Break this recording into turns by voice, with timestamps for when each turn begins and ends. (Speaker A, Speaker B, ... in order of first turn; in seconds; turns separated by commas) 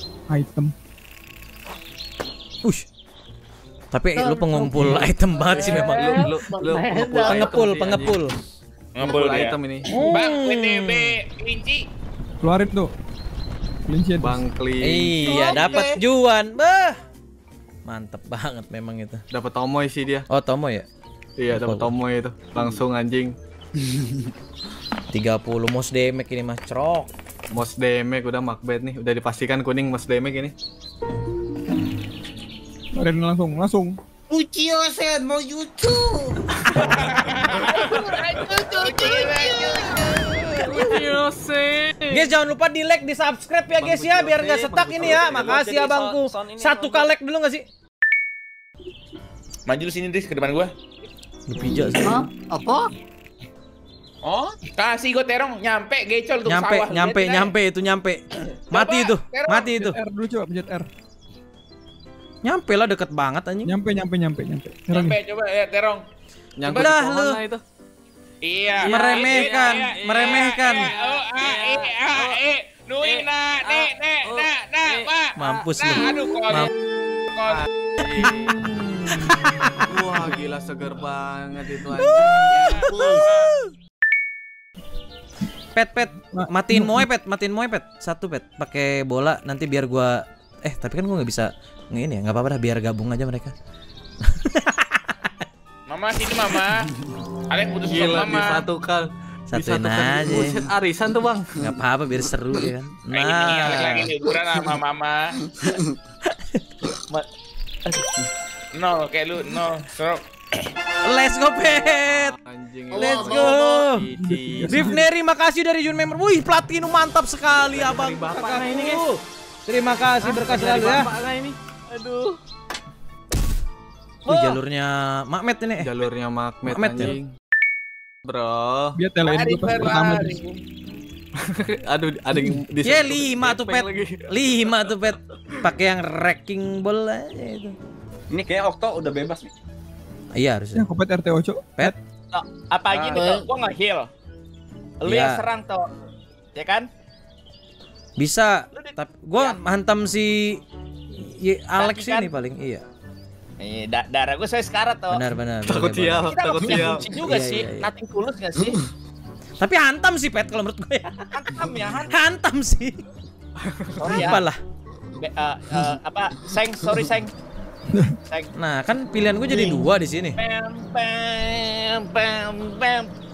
Speaker A: 0.3-0.7, Speaker B: 3.9-6.2, Speaker C: 4.2-7.6, Speaker D: 4.8-8.1, Speaker E: 5.8-6.1, Speaker B: 7.2-8.4, Speaker F: 8.9-9.6, Speaker D: 9.0-9.9, Speaker B: 9.8-11.1, Speaker F: 10.1-11.8, Speaker A: 12.4-12.9, Speaker A: 13.9-14.4, Speaker D: 14.2-15.9, Speaker B: 14.8-17.0, Speaker C: 15.2-16.0, Speaker B: 17.9-19.2, Speaker D: 19.3-20.3, Speaker B: 20.3-20.9, Speaker D: 21.4-23.4, Speaker B: 21.5-21.9, Speaker B: 25.1-27.1, Speaker D: 27.5-30.5, Speaker A: 32.9-34.0, Speaker C: 34.3-41.0, Speaker F: 36.8-40.0, Speaker E: 37.6-38.1, Speaker E: 38.7-39.7, Speaker D: 40.6-42.3, Speaker B: 42.1-47.7, Speaker D: 43.8-45.5, Speaker G: 44.8-47.1, Speaker F: 49.6-50.7, Speaker B: 51.5-52.2, Speaker C: 52.0-52.9, Speaker F: 54.6-57.5, Speaker B: 56.5-60.0, Speaker F: 58.7-59.7, Speaker A: 59.8-60.9, Speaker B: 62.4-63.7, Speaker A: 63.6-65.2, Speaker F: 64.9-66.0, Speaker D: 66.6-67.6, Speaker B: 66.6-67.4, Speaker F: 68.4-76.7, Speaker D: 68.8-70.9, Speaker B: 68.8-70.9, Speaker D: 71.4-72.4, Speaker D: 73.0-75.6, Speaker B: 75.4-76.7, Speaker F: 77.3-77.6, Speaker D: 77.5-78.6, Speaker B: 78.2-78.5, Speaker B: 79.1-80.0, Speaker D: 79.8-82.4, Speaker B: 81.9-83.7, Speaker F: 82.5-83.5, Speaker C: 82.6-83.3, Speaker B: 85.7-93.5, Speaker A: 86.3-87.1, Speaker B: 94.2-95.4, Speaker F: 95.9-96.9, Speaker F: 97.5-98.7, Speaker D: 97.9-101.6, Speaker B: 99.5-100.6, Speaker B: 101.6-104.1, Speaker F: 103.1-105.3, Speaker B: 106.2-106.6, Speaker F: 108.7-110.2, Speaker B: 111.0-112.4, Speaker D: 111.8-114.9, Speaker C: 112.9-113.8, Speaker B: 112.9-114.1, Speaker A: 114.2-115.0, Speaker B: 114.7-121.1, Speaker D: 117.7-119.1, Speaker D: 120.2-121.6, Speaker E: 121.9-122.3, Speaker B: 124.2-125.9, Speaker D: 125.8-127.3, Speaker B: 126.6-127.2, Speaker D: 128.2-129.0, Speaker A: 128.9-130.4, Speaker F: 129.3-130.4, Speaker D: 131.4-134.9, Speaker B: 132.8-137.8, Speaker G: 138.3-139.5, Speaker B: 140.3-140.9, Speaker A: 140.7-141.9, Speaker E: 142.3-144.1, Speaker G: 142.9-143.2, Speaker C: 143.2-143.4, Speaker E: 145.0-145.9, Speaker B: 145.0-145.4, Speaker E: 146.5-146.9, Speaker B: 148.2-152.8, Speaker E: 148.7-149.6, Speaker E: 151.8-152.3, Speaker E: 153.6-155.2, Speaker B: 155.1-157.9, Speaker D: 155.7-157.1, Speaker E: 156.3-158.8, Speaker B: 159.6-161.3, Speaker E: 161.3-162.2, Speaker B: 162.0-163.0, Speaker D: 163.6-163.9, Speaker E: 163.9-164.4, Speaker B: 164.1-164.6, Speaker E: 165.2-167.3, Speaker E: 168.2-168.5, Speaker B: 168.5-170.4, Speaker C: 169.5-169.8, Speaker E: 170.4-173.1